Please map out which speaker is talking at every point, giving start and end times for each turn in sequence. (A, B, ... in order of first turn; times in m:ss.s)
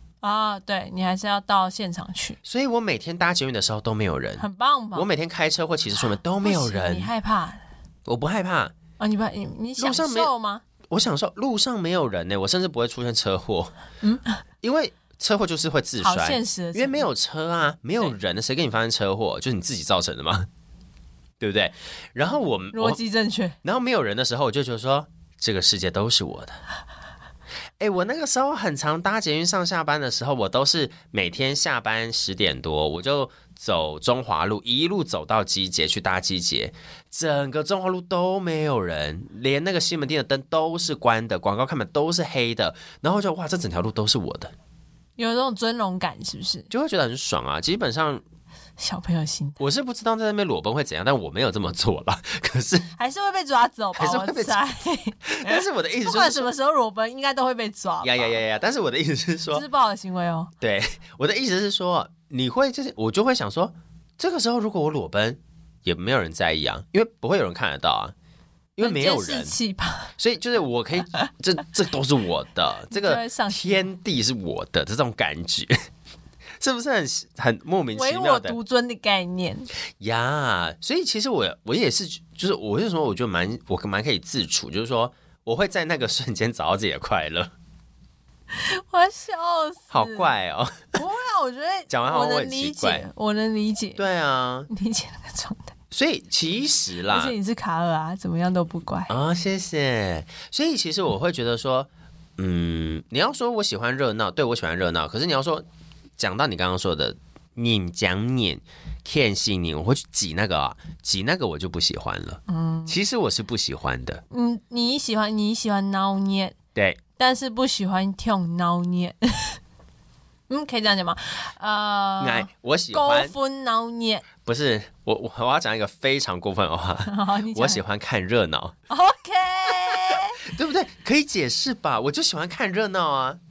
0:00.2-0:02.4 A
0:02.4-0:04.4 B
0:04.4-0:05.1 A
0:04.9-0:07.1 B
0:06.4-0:07.6 A
0:08.1-0:08.7 B
0:09.0-0:10.6 A
0:09.8-0:10.3 B
0:10.9-0:13.7 B
0:14.0-0:14.4 A
0:14.6-0:20.5 B
0:16.0-0:17.1 A
0:21.4-0:23.0 B
0:22.7-0:23.6 A
0:23.6-0:26.6 B
0:27.8-0:44.5 B
0:45.2-0:46.7 A
0:46.7-0:48.2 B
0:48.8-0:49.6 A
0:49.6-0:52.9 B
0:53.0-0:58.4 A
0:54.0-0:54.6 B
0:55.3-0:56.5 B
0:58.0-0:59.6 B
0:59.5-1:00.5 A
1:00.6-1:08.1 B
1:08.8-1:09.5 B
1:08.8-1:10.1 A
1:10.2-1:15.8 B
1:12.9-1:13.9 A
1:16.6-1:18.6 B
1:17.9-1:19.7 A
1:20.0-1:27.5 B
1:28.5-1:30.3 A
1:29.9-1:30.8 B
1:30.9-1:34.0 A
1:31.9-1:33.1 B
1:34.0-1:34.7 B
1:34.7-1:35.7 A
1:35.9-1:37.4 B
1:37.1-1:39.1 A
1:39.1-1:45.6 B
1:46.2-1:54.2 B
1:52.5-1:53.0 A
1:54.3-1:56.6 A
1:56.7-1:57.0 B
1:57.2-1:59.6 A
2:00.5-2:04.3 A
2:02.2-2:03.3 B
2:04.4-2:08.7 B
2:07.0-2:07.8 A
2:08.9-2:10.4 A
2:09.7-2:13.4 B